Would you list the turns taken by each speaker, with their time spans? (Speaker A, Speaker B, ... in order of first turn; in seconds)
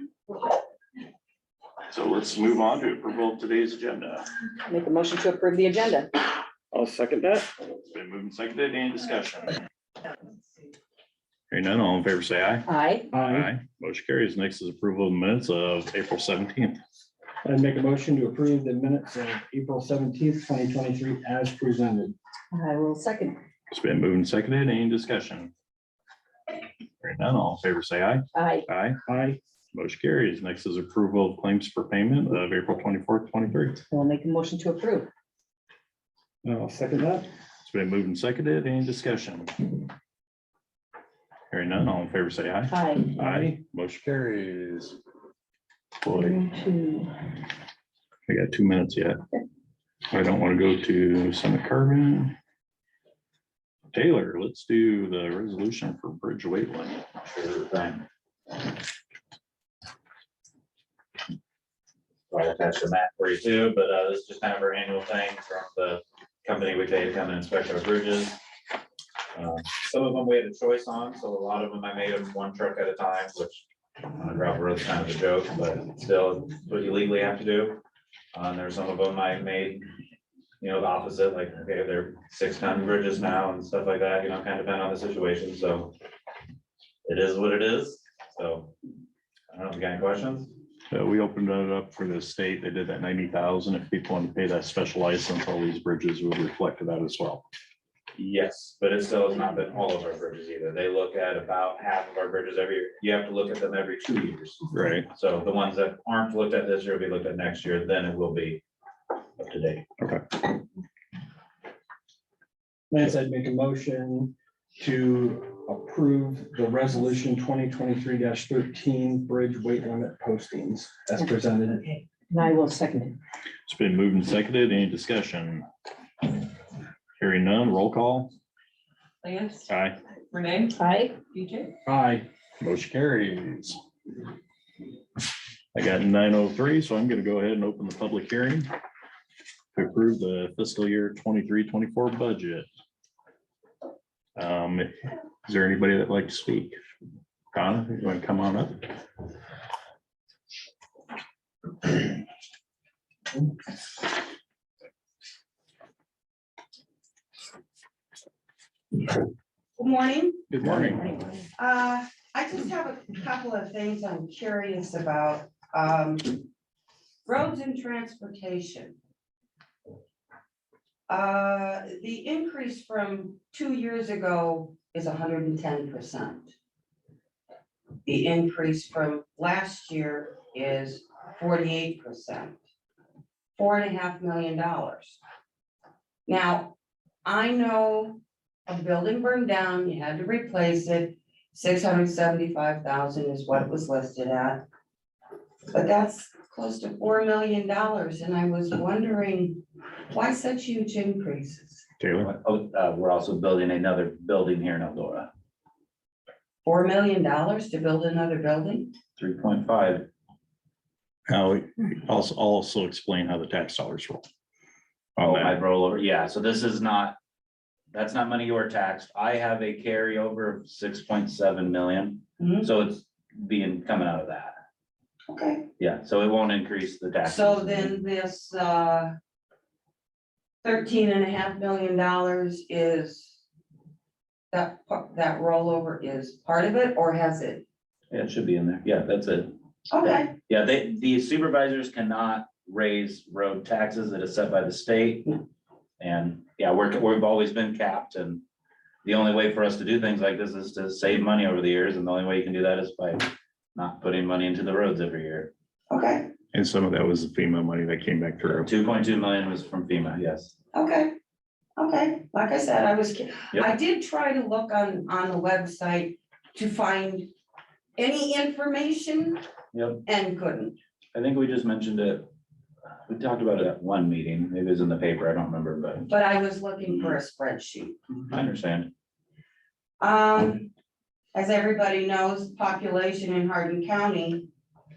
Speaker A: 1.9-4.3, 7.9-9.6, 11.5-12.7, 13.2-16.8, 23.7-25.5, 27.0-29.0, 29.7-33.8, 37.6-39.8, 41.5-45.0, 46.0-46.4, 48.3-49.2, 50.1-52.4, 53.9-57.1, 90.9-97.4, 104.7-105.1, 110.0-110.2, 123.7-125.7, 127.2-128.3, 129.7-130.0, 132.6-133.8, 135.7-138.7, 139.7-142.7, 144.4-146.8, 147.5-148.9, 160.5-161.1, 202.0-202.3, 211.3-214.3, 215.2-215.6, 256.5-258.7
Speaker B: 4.7-6.1, 12.7-13.1, 22.5-23.4, 28.3-28.7, 33.9-35.1, 42.7-43.2, 46.1-47.1, 122.3-123.2, 130.7-131.3
Speaker C: 6.7-7.5, 13.1-13.5, 17.4-22.2, 29.1-29.4, 36.4-37.3, 43.2-43.5, 112.9-122.0, 131.9-132.3
Speaker D: 57.2-58.0, 62.3-68.4, 69.3-77.8, 78.3-79.8, 80.6-86.0, 87.0-88.8, 89.5-90.5, 98.2-108.6, 109.4-109.9, 202.2-205.3, 209.2-210.1, 215.2-217.2, 217.9-224.6, 225.8-227.9, 238.1-239.5, 240.1-245.4, 246.0-248.4, 249.0-255.5, 258.5-260.5, 269.7-270.0, 271.1-272.3, 273.1-276.1, 278.2-278.9
Speaker E: 129.3-129.6, 130.4-130.7, 159.8-160.5, 161.6-166.5, 167.2-169.0, 171.1-176.5, 178.1-182.6, 183.6-185.2, 186.3-186.7, 187.2-194.6, 195.7-201.8, 206.6-208.9, 222.4-222.7, 225.3-225.7, 227.2-229.1, 230.6-233.4, 234.5-237.7, 239.9-240.3, 255.9-256.3, 260.7-261.1, 261.8-267.3, 268.0-269.4, 270.1-270.8, 276.1-278.0, 280.0-280.7, 281.3-284.5